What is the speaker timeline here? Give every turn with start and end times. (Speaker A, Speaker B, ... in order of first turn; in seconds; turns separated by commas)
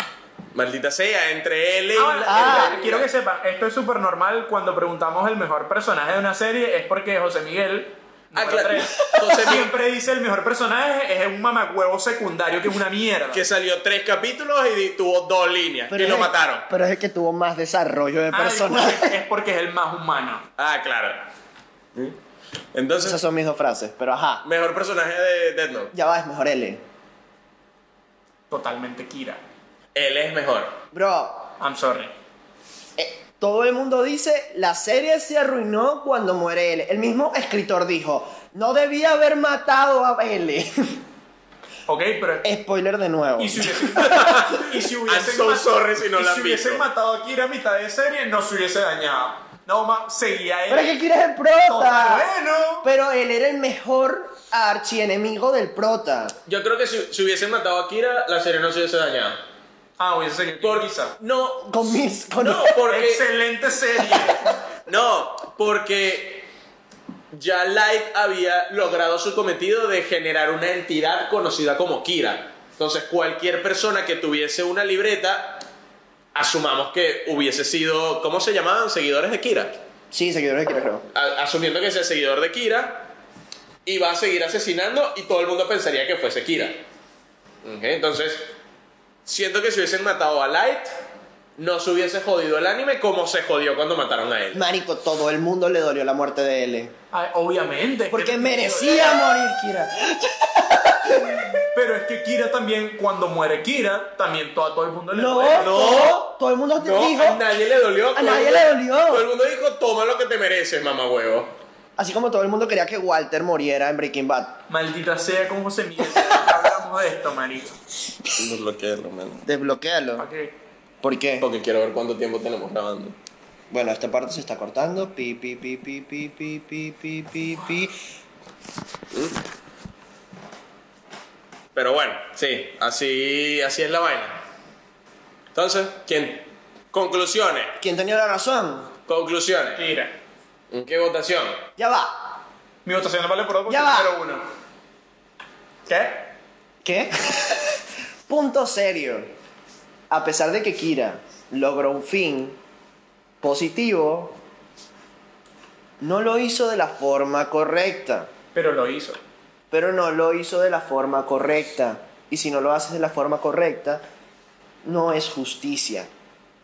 Speaker A: 0.5-3.1, Speaker B: 1.9-13.4, Speaker C: 2.3-2.9, Speaker A: 8.3-9.7, Speaker C: 9.0-9.5, Speaker A: 13.3-16.7, Speaker C: 15.9-19.2, Speaker B: 18.3-20.4, Speaker A: 20.6-21.3, Speaker A: 22.7-23.2, Speaker C: 23.0-24.4, Speaker A: 24.4-25.9, Speaker C: 25.9-26.8, Speaker B: 28.5-29.4, Speaker A: 29.9-30.7, Speaker C: 30.9-31.5, Speaker B: 31.6-32.1, Speaker C: 33.0-41.0, Speaker B: 41.9-42.4, Speaker C: 42.4-44.3, Speaker B: 43.4-51.0, Speaker A: 44.0-46.8, Speaker C: 50.7-52.3, Speaker B: 51.7-52.9, Speaker C: 52.8-56.4, Speaker A: 56.5-59.4, Speaker B: 60.0-61.1, Speaker A: 60.6-61.8, Speaker C: 61.6-62.8, Speaker A: 62.4-63.2, Speaker B: 62.9-64.5, Speaker A: 64.0-66.5, Speaker A: 67.3-75.6, Speaker A: 76.3-79.8, Speaker C: 80.1-81.0, Speaker A: 81.1-83.1, Speaker A: 83.8-86.8, Speaker A: 87.6-88.5, Speaker A: 89.2-90.9, Speaker A: 91.6-94.6, Speaker C: 94.5-96.9, Speaker B: 97.1-99.2, Speaker C: 98.1-101.6, Speaker B: 101.7-106.0, Speaker C: 105.1-107.4, Speaker A: 105.5-111.5, Speaker C: 108.1-109.3, Speaker C: 112.0-114.6, Speaker B: 114.7-117.8, Speaker A: 118.3-119.4, Speaker C: 119.4-120.3, Speaker B: 120.2-120.5, Speaker C: 121.0-121.5, Speaker A: 121.4-123.2, Speaker C: 123.7-127.9, Speaker A: 131.7-134.4, Speaker A: 135.5-137.7, Speaker C: 137.8-138.9, Speaker A: 139.1-139.8, Speaker B: 139.8-140.1, Speaker A: 140.7-141.6, Speaker C: 141.8-142.4, Speaker B: 142.8-144.4, Speaker C: 143.7-144.1, Speaker B: 145.8-146.3, Speaker C: 146.8-149.3, Speaker C: 150.1-152.6, Speaker C: 153.4-154.4, Speaker C: 156.0-158.3, Speaker B: 158.5-159.2, Speaker C: 159.7-164.0, Speaker C: 164.8-166.1